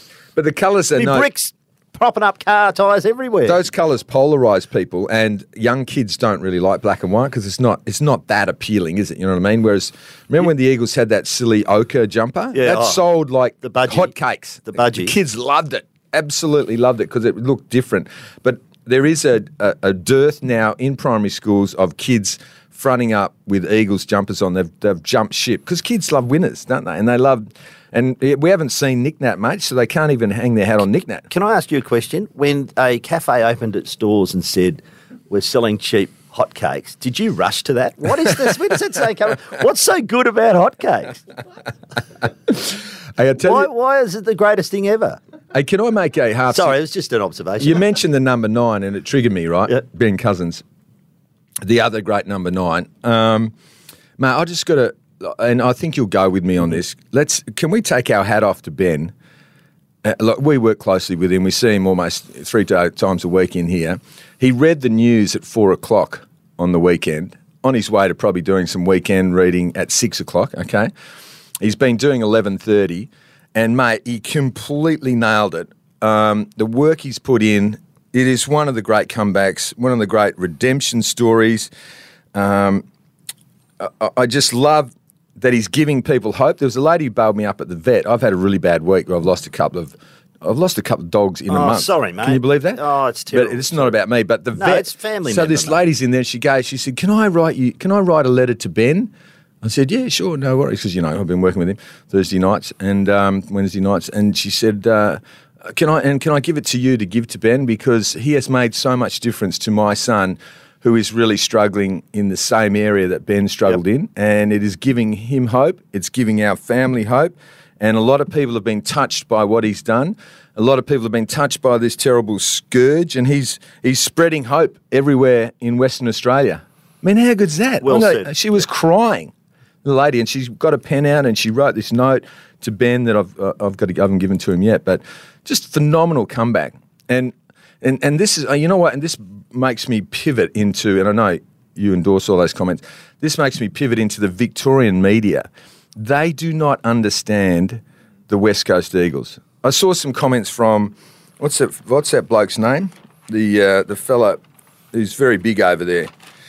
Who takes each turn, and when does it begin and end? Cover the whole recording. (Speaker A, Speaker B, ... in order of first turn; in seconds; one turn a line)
Speaker A: 0.3-1.3
Speaker B: 0.9-3.6
Speaker A: 3.4-31.3
Speaker B: 12.5-13.0
Speaker B: 13.6-14.1
Speaker B: 14.7-15.1
Speaker B: 31.3-41.2
Speaker A: 42.5-43.7
Speaker B: 43.4-45.2
Speaker A: 45.5-46.8
Speaker B: 46.5-47.9
Speaker A: 47.6-50.6
Speaker A: 51.6-53.5
Speaker A: 54.2-59.1
Speaker A: 60.0-70.9
Speaker A: 71.6-81.7
Speaker A: 82.3-82.8
Speaker A: 83.8-92.8
Speaker B: 91.5-93.9
Speaker A: 93.3-99.1
Speaker B: 94.5-95.8
Speaker A: 99.6-129.3
Speaker B: 127.8-128.3
Speaker A: 129.8-154.4
Speaker A: 154.9-156.1